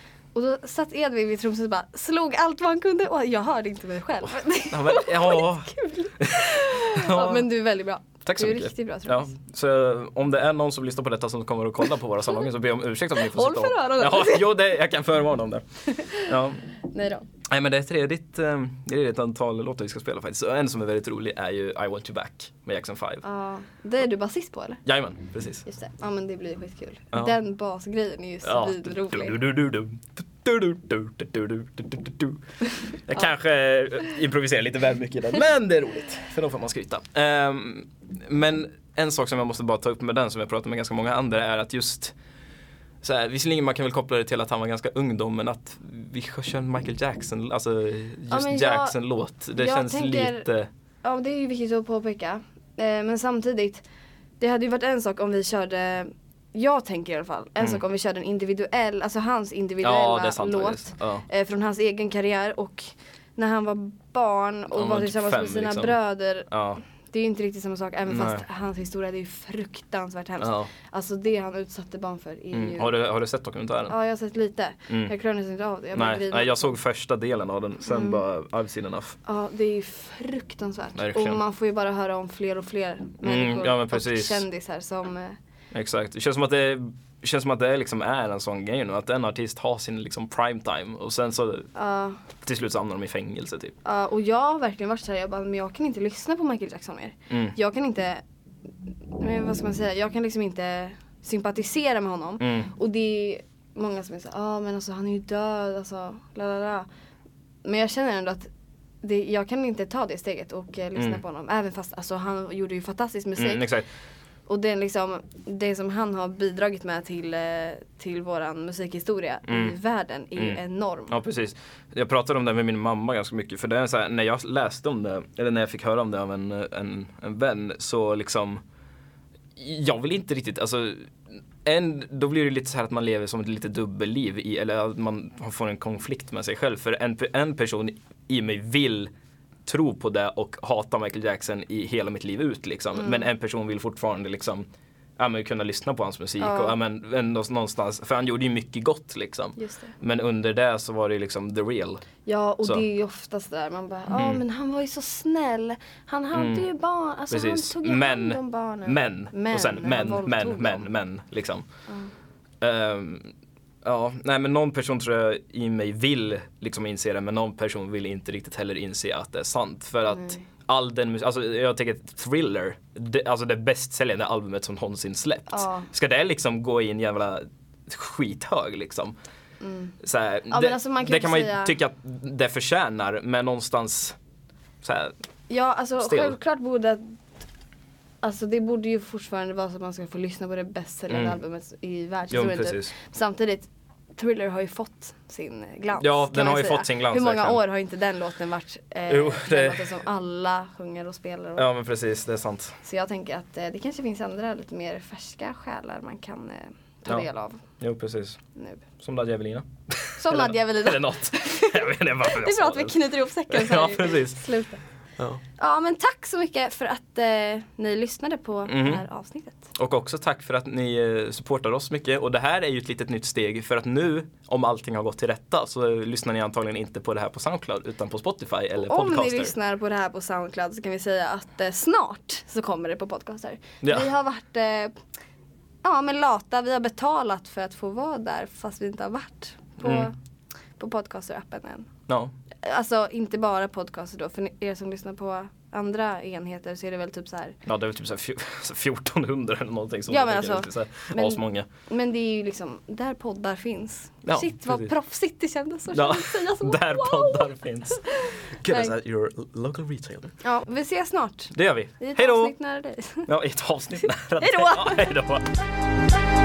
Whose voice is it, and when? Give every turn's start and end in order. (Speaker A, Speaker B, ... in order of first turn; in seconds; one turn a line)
Speaker A: 0.3-9.3
Speaker B: 4.2-7.5
Speaker B: 8.0-16.7
Speaker A: 13.1-14.5
Speaker A: 15.9-16.3
Speaker A: 16.8-17.2
Speaker B: 17.5-23.2
Speaker A: 23.2-24.9
Speaker B: 24.8-25.6
Speaker A: 25.6-29.4
Speaker B: 28.4-42.1
Speaker B: 43.0-50.7
Speaker A: 48.3-50.5
Speaker A: 51.0-73.1
Speaker B: 59.8-61.3
Speaker B: 64.7-66.8
Speaker B: 68.1-68.5
Speaker B: 70.4-70.7
Speaker B: 72.5-74.0
Speaker A: 73.9-76.7
Speaker B: 74.9-75.1
Speaker B: 75.9-79.2
Speaker A: 77.8-78.2
Speaker A: 79.2-85.4
Speaker B: 80.9-81.4
Speaker B: 83.2-84.4
Speaker B: 85.7-91.7
Speaker A: 91.7-92.2
Speaker B: 92.3-93.8
Speaker A: 93.8-98.2
Speaker B: 97.3-97.6
Speaker A: 99.1-106.9
Speaker B: 102.4-102.7
Speaker A: 107.6-108.5
Speaker A: 109.0-113.8
Speaker B: 111.0-111.2
Speaker B: 113.4-113.9
Speaker A: 114.5-121.2
Speaker B: 119.5-119.7
Speaker B: 120.3-128.6
Speaker B: 129.6-139.1
Speaker B: 139.7-152.8
Speaker A: 142.9-143.3
Speaker A: 146.4-146.8
Speaker A: 149.6-149.9
Speaker A: 152.2-160.9
Speaker B: 154.1-154.4
Speaker B: 156.3-162.1
Speaker A: 161.9-162.1
Speaker B: 162.6-179.2
Speaker A: 170.1-170.4
Speaker A: 175.5-175.9
Speaker A: 179.6-179.9
Speaker B: 180.0-184.2
Speaker A: 180.5-181.8
Speaker B: 184.8-185.2
Speaker A: 185.5-187.2
Speaker B: 186.0-186.4
Speaker A: 188.2-201.7
Speaker B: 191.1-191.4
Speaker B: 192.3-192.9
Speaker B: 196.0-197.6
Speaker B: 199.1-200.1
Speaker B: 201.6-202.8
Speaker A: 202.8-207.9
Speaker B: 207.1-215.4
Speaker A: 208.5-208.8
Speaker A: 210.2-214.8
Speaker A: 215.6-219.7
Speaker B: 218.7-219.0
Speaker B: 219.7-229.5
Speaker A: 228.8-235.0
Speaker B: 233.8-234.1
Speaker A: 235.8-247.6
Speaker B: 239.8-240.1
Speaker B: 242.1-242.3
Speaker B: 247.7-251.7
Speaker A: 250.1-258.9
Speaker B: 254.2-260.4
Speaker A: 260.4-263.3
Speaker B: 261.5-265.5
Speaker A: 264.4-265.1